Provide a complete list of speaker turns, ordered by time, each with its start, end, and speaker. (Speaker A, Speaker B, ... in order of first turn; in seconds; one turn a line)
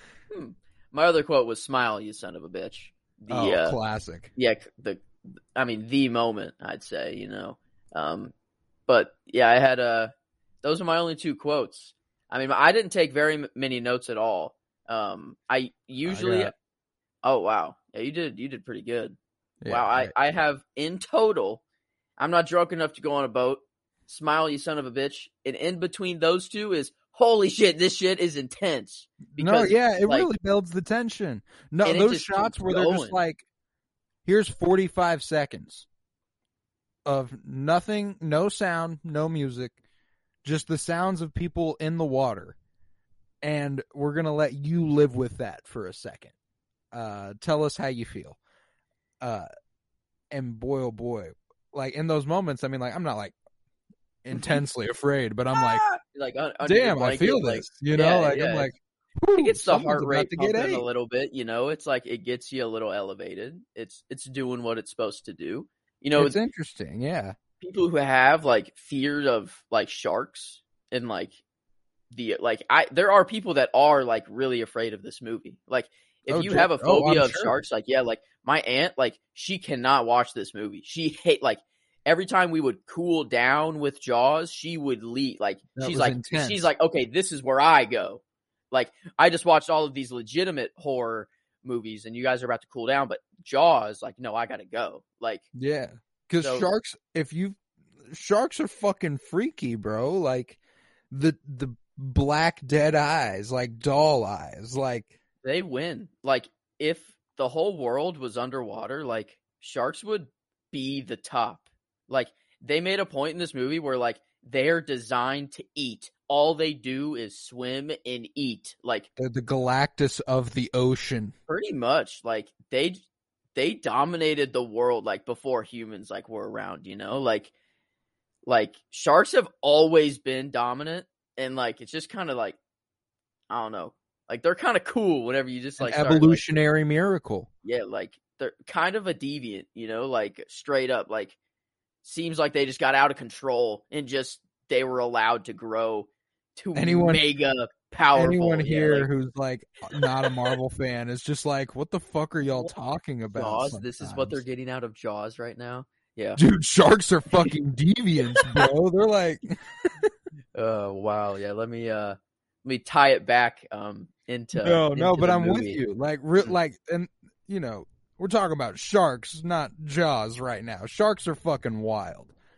Speaker A: 0.3-3.8
Speaker B: 3.3-4.3
Speaker A: 4.3-8.3
Speaker A: 8.9-16.5
Speaker B: 16.1-16.5
Speaker A: 17.2-21.6
Speaker B: 19.6-20.1
Speaker A: 22.2-30.3
Speaker B: 29.3-33.4
Speaker A: 31.8-33.2
Speaker B: 34.2-35.9
Speaker B: 37.0-39.8
Speaker B: 40.4-42.5
Speaker B: 43.4-46.3
Speaker B: 46.9-48.4
Speaker B: 49.2-49.5
Speaker B: 50.3-53.4
Speaker B: 54.2-55.8
Speaker A: 54.4-54.6
Speaker A: 55.5-58.7
Speaker B: 56.6-60.8
Speaker A: 59.4-66.4
Speaker B: 66.2-67.3
Speaker A: 67.6-71.4
Speaker A: 72.1-95.5
Speaker B: 76.3-77.5
Speaker B: 85.8-86.7
Speaker B: 95.5-100.6
Speaker A: 96.4-96.7
Speaker B: 101.1-105.1
Speaker A: 105.4-119.1
Speaker B: 119.2-121.3
Speaker A: 121.5-123.0
Speaker A: 123.5-127.5
Speaker A: 128.4-132.6
Speaker A: 133.5-136.4
Speaker B: 135.8-137.5
Speaker A: 137.6-141.3
Speaker A: 142.0-149.1
Speaker B: 146.7-147.2
Speaker B: 148.1-154.4
Speaker A: 153.3-156.4
Speaker B: 156.4-160.1
Speaker A: 158.3-158.7
Speaker A: 160.5-165.8
Speaker B: 164.6-172.3